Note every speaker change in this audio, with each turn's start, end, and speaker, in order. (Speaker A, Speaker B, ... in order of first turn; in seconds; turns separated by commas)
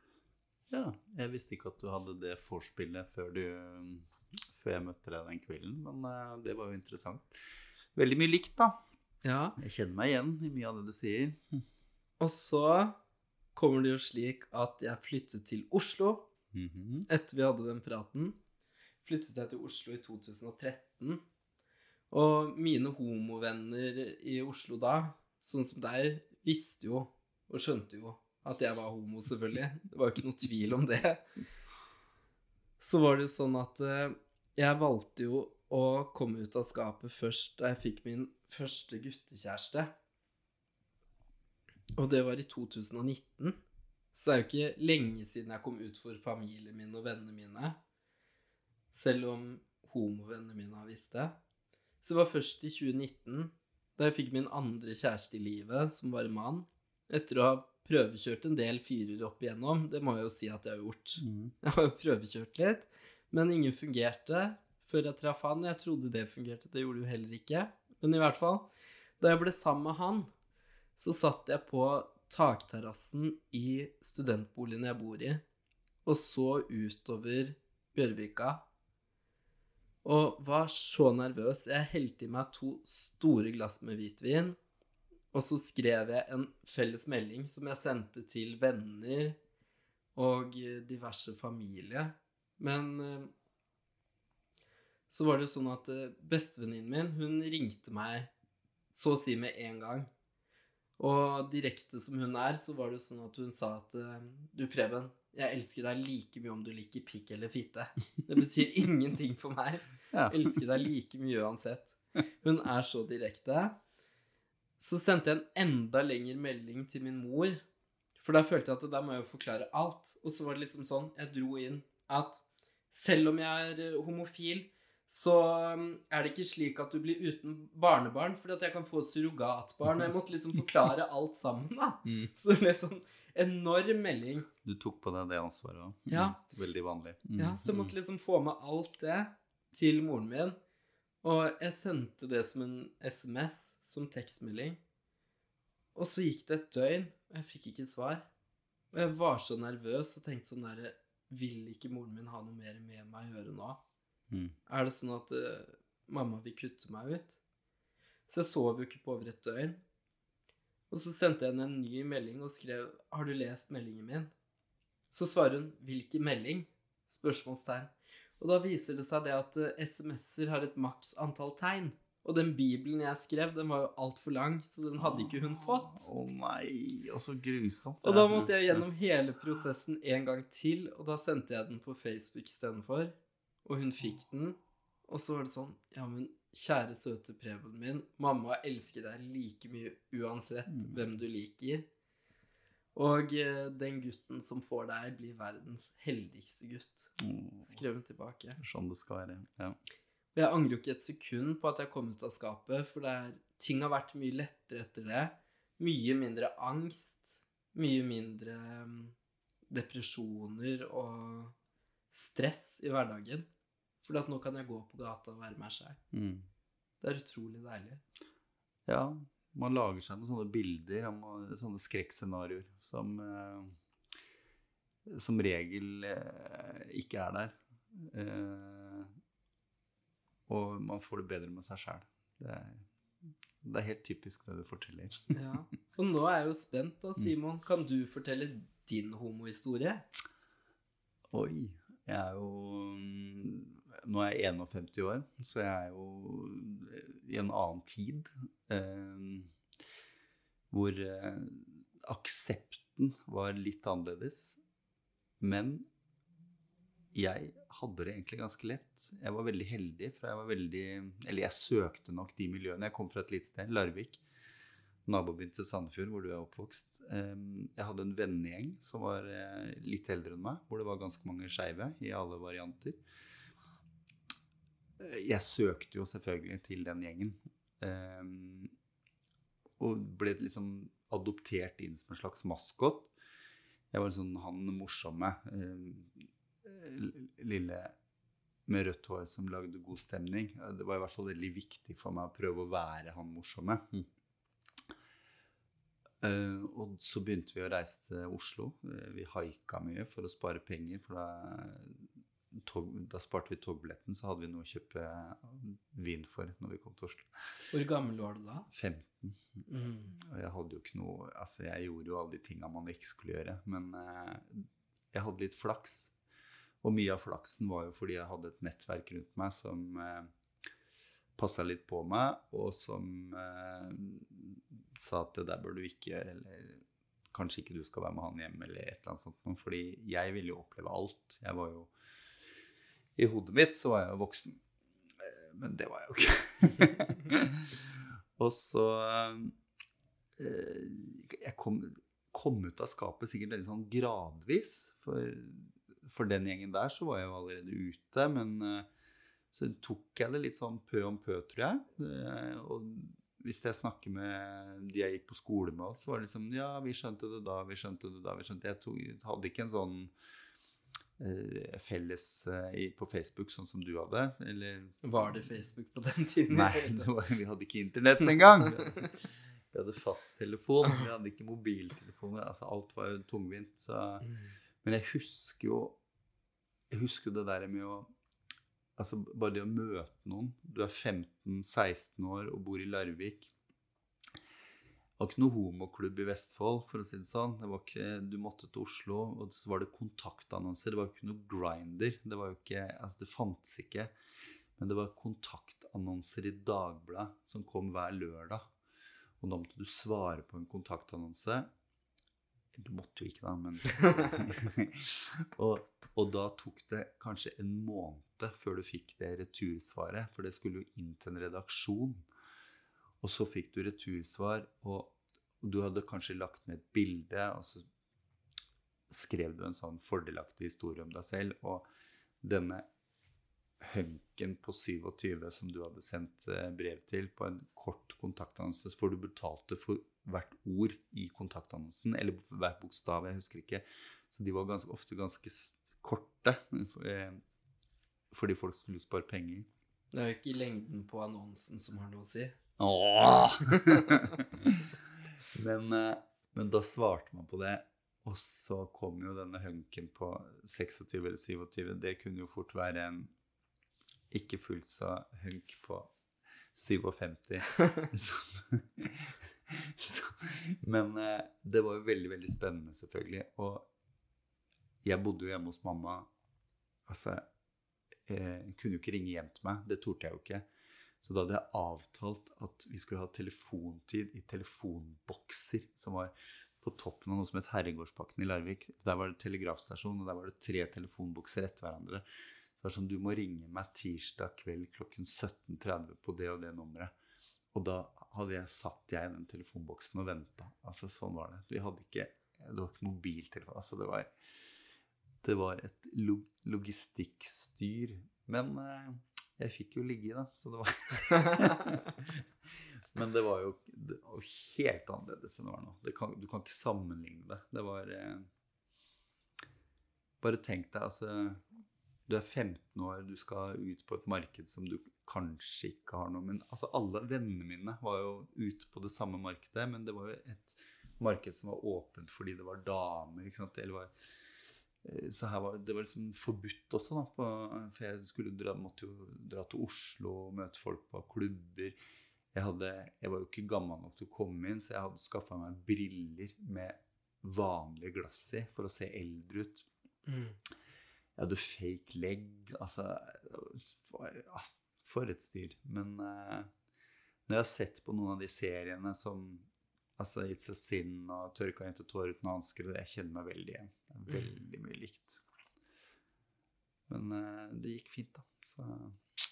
Speaker A: 0.7-7.4, Speaker A: 7.9-8.8, Speaker B: 9.2-9.6, Speaker A: 9.6-11.6, Speaker B: 12.2-12.9, Speaker B: 13.5-16.2, Speaker A: 16.5-17.1, Speaker B: 17.1-18.4, Speaker B: 19.0-21.2, Speaker B: 22.1-31.2, Speaker B: 32.8-39.9, Speaker B: 42.0-43.6, Speaker B: 44.1-47.8, Speaker B: 48.9-51.4, Speaker B: 52.0-68.7, Speaker A: 61.2-61.5, Speaker B: 69.2-70.3, Speaker B: 71.0-75.4, Speaker B: 76.0-78.6, Speaker B: 80.0-84.6, Speaker B: 85.3-89.4, Speaker B: 90.2-93.3, Speaker B: 95.1-98.3, Speaker B: 98.9-100.1, Speaker B: 101.0-113.8, Speaker A: 110.1-110.5, Speaker B: 114.8-117.6, Speaker B: 118.2-134.5, Speaker A: 132.0-132.3, Speaker A: 134.6-137.9, Speaker B: 136.1-136.4, Speaker B: 137.4-140.6, Speaker B: 141.2-144.8, Speaker B: 145.9-148.3, Speaker B: 148.9-153.8, Speaker B: 154.7-157.4, Speaker B: 158.3-159.8, Speaker B: 160.9-164.3, Speaker B: 165.1-176.1, Speaker A: 175.0-178.8, Speaker B: 178.0-191.8, Speaker A: 190.7-191.0, Speaker B: 192.9-198.6, Speaker A: 197.2-197.8, Speaker A: 198.6-199.8, Speaker B: 200.3-209.1, Speaker B: 209.7-211.6, Speaker B: 212.1-213.5, Speaker B: 214.0-216.0, Speaker A: 216.1-216.5, Speaker B: 217.0-218.0, Speaker A: 218.8-223.8, Speaker A: 225.1-229.1, Speaker A: 230.5-232.9, Speaker A: 233.6-235.4, Speaker B: 235.3-240.1, Speaker A: 241.3-249.5, Speaker A: 250.7-254.6, Speaker A: 255.4-255.8, Speaker A: 257.1-264.2, Speaker A: 265.1-273.0, Speaker A: 275.0-278.7, Speaker A: 279.8-283.1, Speaker A: 283.9-287.9, Speaker A: 288.7-294.1, Speaker A: 296.2-307.3, Speaker B: 307.7-308.7, Speaker A: 308.7-316.1, Speaker B: 309.7-310.1, Speaker A: 316.8-320.3, Speaker A: 321.4-331.9, Speaker A: 333.2-334.6, Speaker A: 335.2-339.6, Speaker A: 340.4-348.9, Speaker A: 349.5-360.1, Speaker A: 361.2-365.3, Speaker B: 365.0-367.1, Speaker A: 366.5-374.3, Speaker B: 368.8-369.1, Speaker B: 374.2-374.5, Speaker A: 374.8-375.9, Speaker A: 376.9-378.1, Speaker A: 379.0-383.5, Speaker A: 385.2-394.1, Speaker A: 394.8-398.6, Speaker A: 399.4-401.7, Speaker A: 402.7-412.2, Speaker A: 413.2-417.8, Speaker A: 419.1-421.9, Speaker A: 422.4-422.8, Speaker A: 423.8-437.4, Speaker A: 438.3-439.7, Speaker B: 440.1-442.6, Speaker A: 442.8-453.3, Speaker A: 454.3-456.1, Speaker A: 456.7-463.9, Speaker A: 465.0-466.3, Speaker A: 467.1-467.4, Speaker A: 468.2-470.6, Speaker A: 471.2-482.2, Speaker A: 482.8-487.1, Speaker A: 487.7-494.3, Speaker A: 495.4-502.4, Speaker A: 503.1-508.5, Speaker A: 510.4-511.6, Speaker A: 512.3-524.1, Speaker A: 525.0-532.0, Speaker A: 532.5-539.9, Speaker B: 540.2-540.6, Speaker A: 541.4-546.7, Speaker A: 547.5-549.6, Speaker A: 550.2-555.4, Speaker B: 554.3-554.5, Speaker A: 557.1-559.2